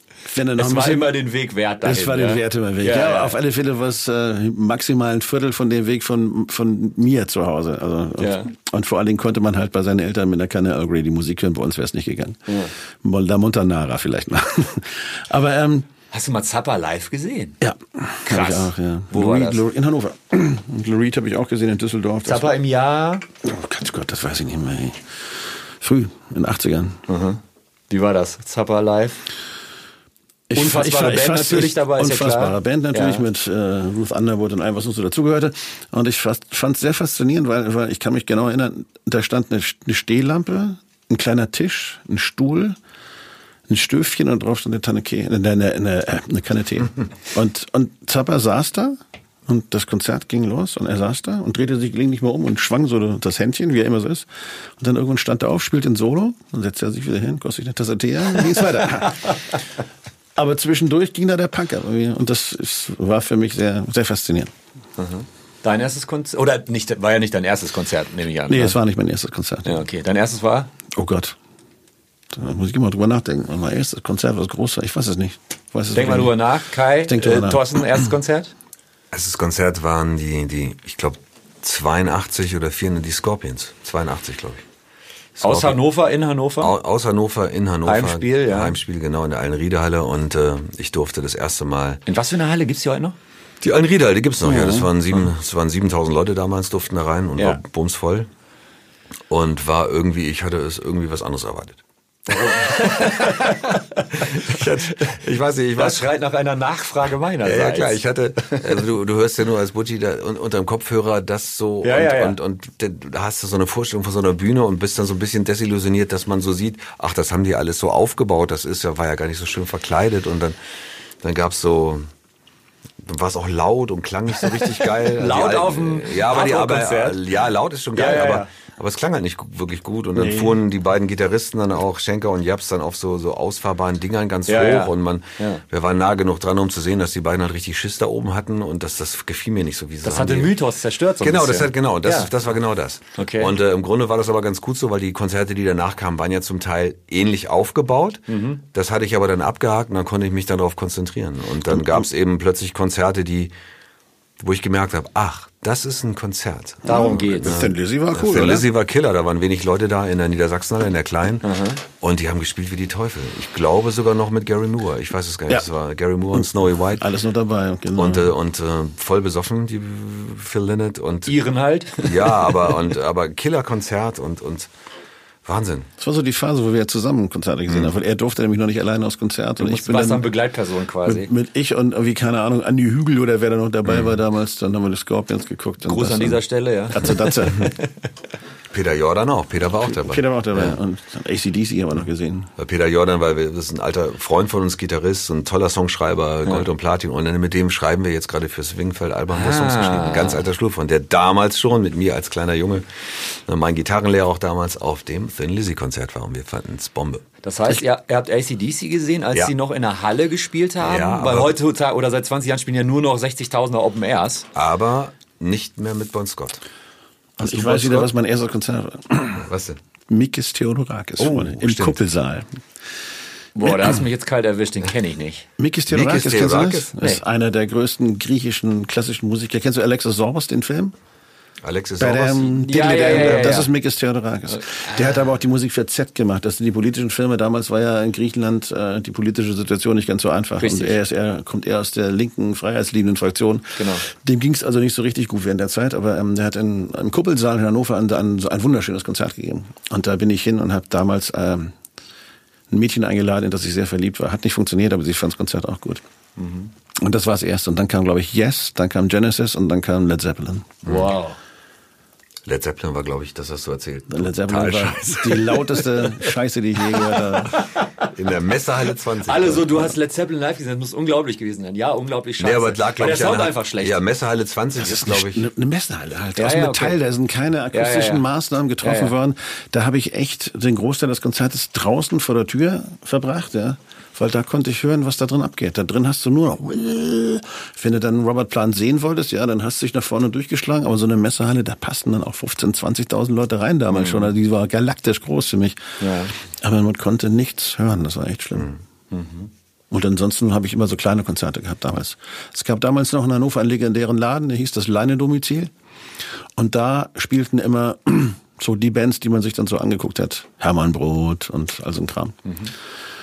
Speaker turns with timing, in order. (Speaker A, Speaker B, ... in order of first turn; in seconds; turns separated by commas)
Speaker A: 0.2-1.2, Speaker B: 0.6-3.4, Speaker A: 1.8-15.9, Speaker B: 8.2-8.5, Speaker B: 12.5-12.7, Speaker B: 16.1-17.6, Speaker A: 17.6-22.6, Speaker B: 18.2-19.6, Speaker B: 22.2-23.2, Speaker A: 23.4-27.0, Speaker B: 27.1-29.2, Speaker A: 30.5-42.8, Speaker B: 30.6-33.2, Speaker A: 43.7-59.6, Speaker A: 60.4-64.5, Speaker B: 65.0-68.8, Speaker A: 68.5-69.8, Speaker B: 69.6-70.7, Speaker A: 70.9-71.4, Speaker A: 72.3-76.4, Speaker B: 75.9-78.5, Speaker A: 77.1-77.8, Speaker C: 79.1-84.6, Speaker C: 85.4-85.8, Speaker B: 85.4-86.8, Speaker C: 86.6-92.0, Speaker B: 87.9-88.8, Speaker B: 92.1-93.2, Speaker C: 93.6-98.3, Speaker B: 94.4-94.9, Speaker C: 99.3-101.8, Speaker C: 102.3-103.6, Speaker B: 102.3-105.2, Speaker C: 104.2-106.1, Speaker B: 105.8-108.7, Speaker C: 107.4-120.6, Speaker B: 111.8-112.4, Speaker C: 121.2-122.1, Speaker C: 123.0-140.6, Speaker B: 124.5-127.2, Speaker B: 128.0-128.5, Speaker A: 130.2-130.6, Speaker B: 134.5-135.6, Speaker B: 140.0-142.3, Speaker C: 141.2-153.5, Speaker B: 143.2-143.5, Speaker B: 148.3-148.6, Speaker A: 151.7-152.1, Speaker C: 154.4-167.1, Speaker B: 156.8-157.6, Speaker A: 156.9-158.7, Speaker B: 161.4-161.8, Speaker A: 166.3-168.3, Speaker C: 167.9-171.4, Speaker B: 171.3-172.7, Speaker C: 172.0-174.7, Speaker C: 175.4-175.9, Speaker A: 176.0-180.3, Speaker B: 179.6-181.3, Speaker A: 181.0-187.7, Speaker C: 183.9-184.1, Speaker B: 185.8-188.0, Speaker C: 188.7-190.8, Speaker A: 189.8-192.5, Speaker C: 192.6-207.2, Speaker B: 199.3-200.4, Speaker B: 207.4-214.5, Speaker C: 210.8-211.6, Speaker C: 214.6-216.6, Speaker A: 217.4-219.5, Speaker C: 217.4-218.1, Speaker C: 219.4-219.8, Speaker A: 220.1-222.6, Speaker C: 221.2-222.0, Speaker B: 223.6-225.5, Speaker A: 223.6-224.0, Speaker A: 225.6-230.9, Speaker C: 225.9-226.9, Speaker C: 231.6-233.5, Speaker A: 232.0-251.8, Speaker B: 232.6-233.7, Speaker B: 234.5-235.3, Speaker B: 240.6-241.0, Speaker B: 243.8-244.1, Speaker A: 252.7-256.0, Speaker B: 256.4-256.7, Speaker A: 257.0-260.8, Speaker C: 260.8-261.2, Speaker B: 260.9-261.4, Speaker C: 262.5-266.3, Speaker A: 264.1-267.6, Speaker B: 267.5-268.1, Speaker C: 268.0-269.9, Speaker B: 269.2-274.0, Speaker C: 272.4-275.5, Speaker A: 274.8-298.7, Speaker B: 276.4-277.0, Speaker B: 277.7-278.2, Speaker B: 278.8-279.1, Speaker B: 293.9-294.3, Speaker B: 296.0-296.3, Speaker B: 299.1-299.5, Speaker A: 299.9-305.7, Speaker A: 306.6-312.4, Speaker B: 312.5-312.7